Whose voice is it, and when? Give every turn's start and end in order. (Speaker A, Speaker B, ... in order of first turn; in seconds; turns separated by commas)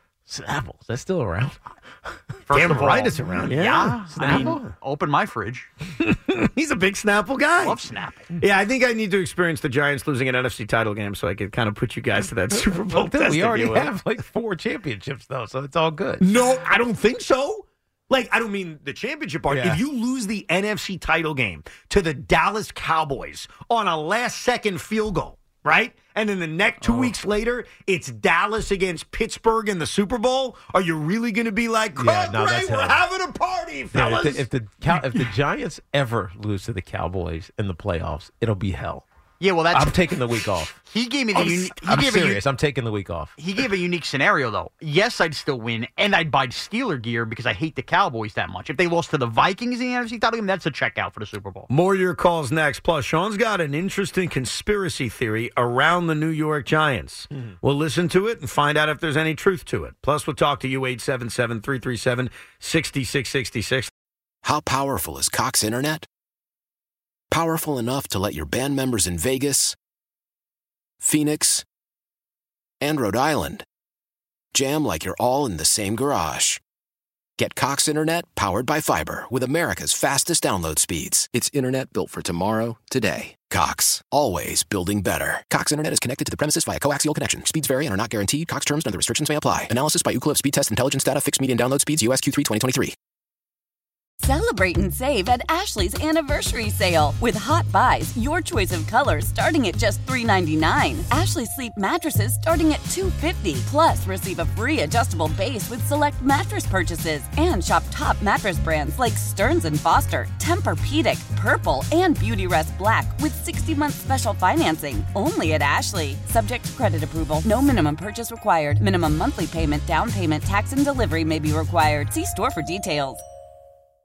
Speaker A: 0.3-2.1, Speaker B: 2.5-5.7, Speaker C: 2.5-4.6, Speaker A: 3.5-4.7, Speaker C: 6.0-7.8, Speaker B: 7.6-8.3, Speaker C: 8.4-13.9, Speaker A: 12.5-16.4, Speaker C: 16.2-35.3, Speaker A: 19.5-19.8, Speaker A: 26.8-27.2, Speaker A: 31.9-33.0, Speaker A: 33.9-39.0, Speaker B: 39.4-40.0, Speaker A: 39.7-40.8, Speaker B: 40.8-42.4, Speaker A: 41.3-43.4, Speaker B: 43.4-51.7, Speaker C: 51.7-63.9, Speaker D: 64.4-66.1, Speaker D: 67.3-69.8, Speaker D: 71.0-71.7, Speaker D: 72.8-73.6, Speaker D: 74.5-76.6, Speaker D: 77.4-93.0, Speaker E: 94.2-123.2